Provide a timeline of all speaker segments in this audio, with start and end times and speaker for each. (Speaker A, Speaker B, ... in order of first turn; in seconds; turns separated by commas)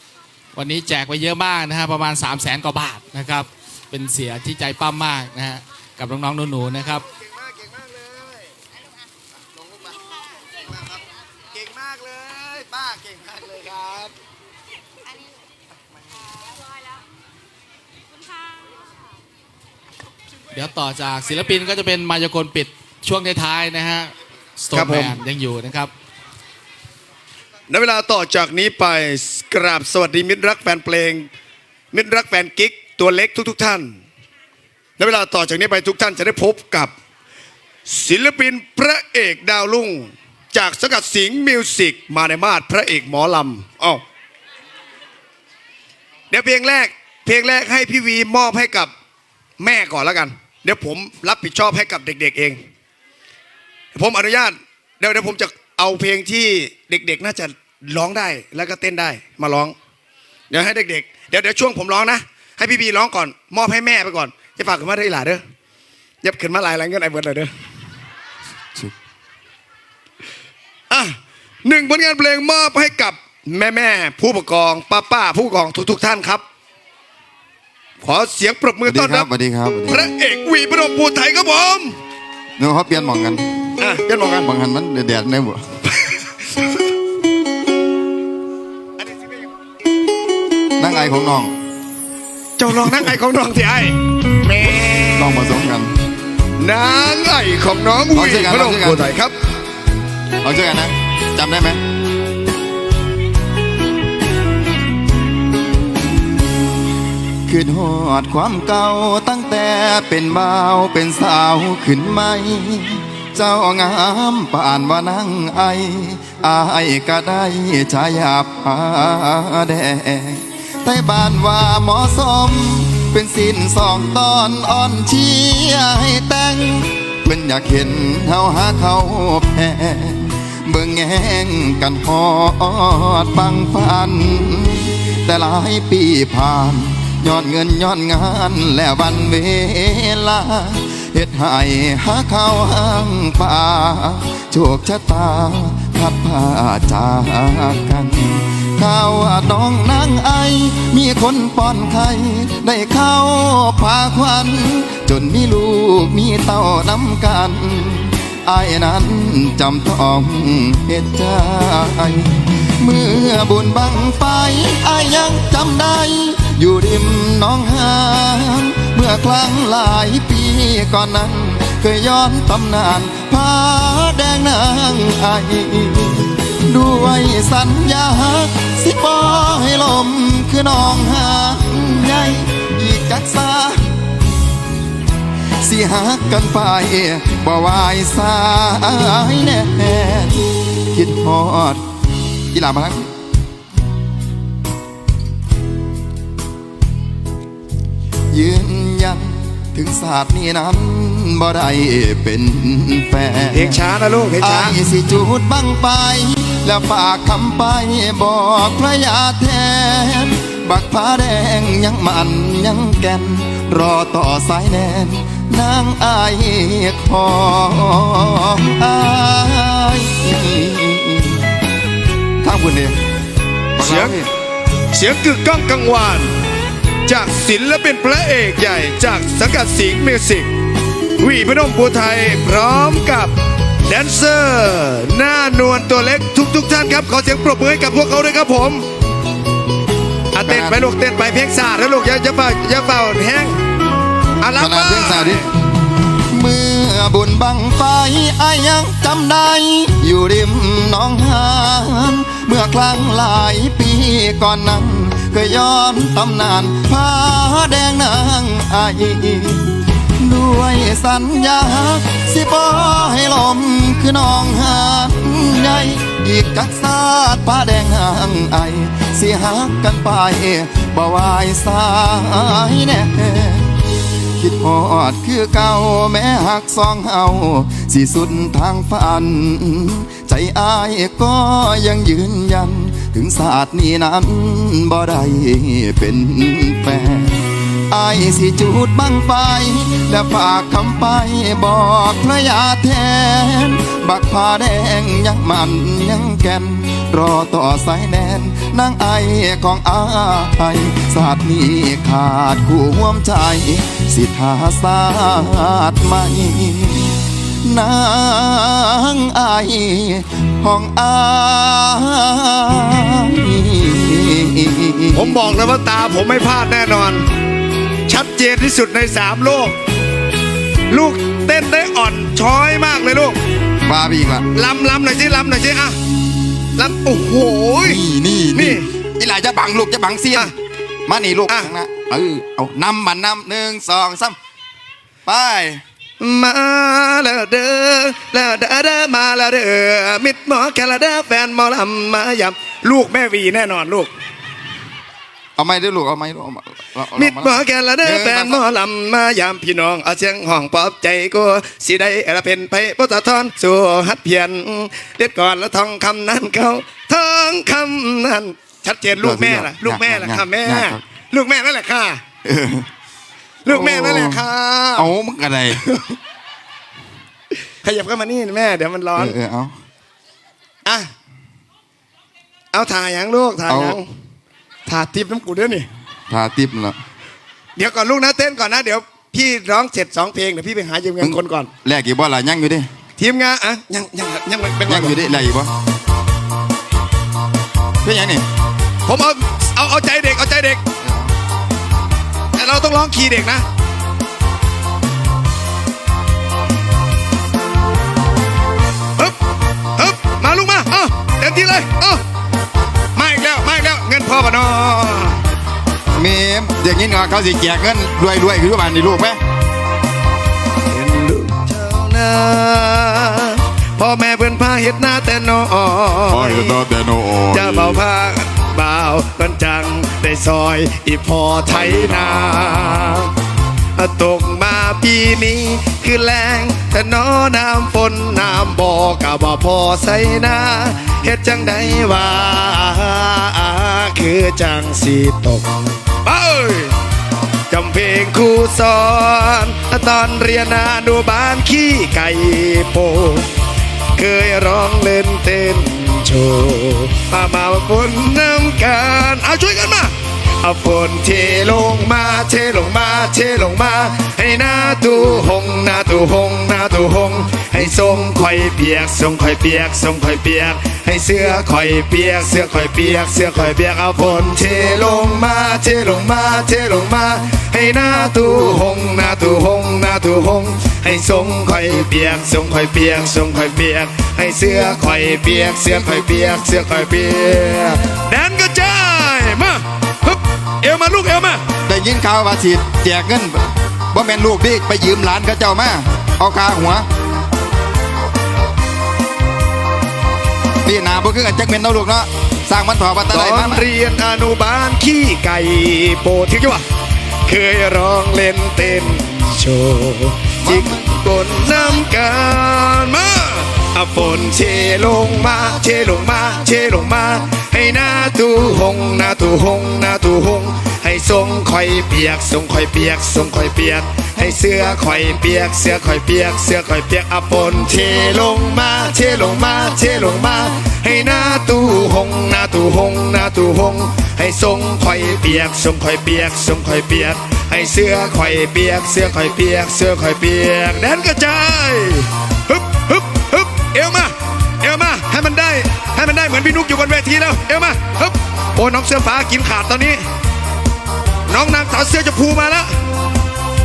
Speaker A: 0.5-7.0, Speaker B: 7.1-8.5, Speaker B: 10.6-11.0, Speaker B: 11.5-14.1, Speaker A: 20.5-25.9, Speaker B: 24.7-25.1, Speaker B: 27.7-31.3, Speaker B: 31.9-34.0, Speaker B: 35.0-36.9, Speaker B: 37.9-44.0, Speaker B: 46.3-48.9, Speaker B: 49.6-52.6, Speaker B: 53.9-59.7, Speaker B: 60.5-65.4, Speaker B: 66.2-67.5, Speaker B: 70.9-76.4, Speaker B: 78.0-79.3, Speaker C: 78.8-80.1, Speaker B: 79.9-82.0, Speaker C: 82.6-83.5, Speaker B: 83.8-84.5, Speaker C: 84.4-85.6, Speaker B: 89.0-89.5, Speaker C: 90.8-91.5, Speaker B: 92.6-95.5, Speaker C: 95.1-95.9, Speaker B: 96.6-99.3, Speaker C: 98.1-99.1, Speaker C: 100.4-101.8, Speaker C: 107.5-183.8, Speaker C: 185.6-191.8, Speaker C: 192.5-193.1, Speaker C: 198.3-203.9, Speaker B: 203.5-204.8, Speaker C: 204.4-221.5, Speaker C: 222.4-223.0, Speaker C: 223.8-224.3, Speaker B: 223.8-224.2, Speaker B: 224.9-226.3, Speaker B: 227.1-230.5, Speaker B: 231.2-233.3, Speaker B: 233.8-238.8, Speaker B: 240.3-243.6, Speaker C: 240.4-240.8, Speaker B: 244.4-245.4, Speaker C: 244.6-245.5, Speaker C: 246.3-273.8, Speaker C: 274.4-315.6, Speaker B: 315.1-317.2, Speaker B: 318.1-319.8, Speaker B: 320.9-323.4, Speaker C: 323.8-324.5, Speaker B: 324.5-325.9, Speaker B: 326.8-328.0, Speaker C: 327.8-330.5, Speaker B: 328.5-328.8, Speaker C: 331.1-334.4, Speaker C: 335.2-335.8, Speaker B: 336.2-344.1, Speaker C: 345.6-348.6, Speaker B: 347.2-362.2, Speaker C: 359.1-361.0, Speaker C: 362.4-362.9, Speaker B: 363.6-365.1, Speaker C: 363.7-365.8, Speaker B: 365.8-366.1, Speaker B: 367.8-369.3, Speaker C: 369.1-369.7, Speaker B: 372.7-374.1, Speaker C: 373.7-374.0, Speaker B: 374.9-375.9, Speaker C: 376.3-377.0, Speaker B: 377.8-381.7, Speaker C: 381.2-382.9, Speaker B: 383.2-385.4, Speaker C: 384.8-385.7, Speaker C: 388.0-388.4, Speaker B: 389.1-390.8, Speaker C: 391.0-391.3, Speaker B: 392.6-393.6, Speaker B: 400.0-402.2, Speaker B: 403.1-405.4, Speaker C: 406.1-409.4, Speaker B: 410.9-416.8, Speaker C: 416.3-418.0, Speaker B: 417.5-423.3, Speaker C: 421.7-423.1, Speaker B: 423.9-436.9, Speaker B: 437.7-443.5, Speaker B: 444.1-481.6, Speaker C: 474.6-477.4, Speaker C: 481.9-487.1, Speaker C: 490.8-493.9, Speaker B: 493.3-496.8, Speaker B: 497.4-540.2, Speaker C: 500.6-501.2, Speaker B: 541.5-542.9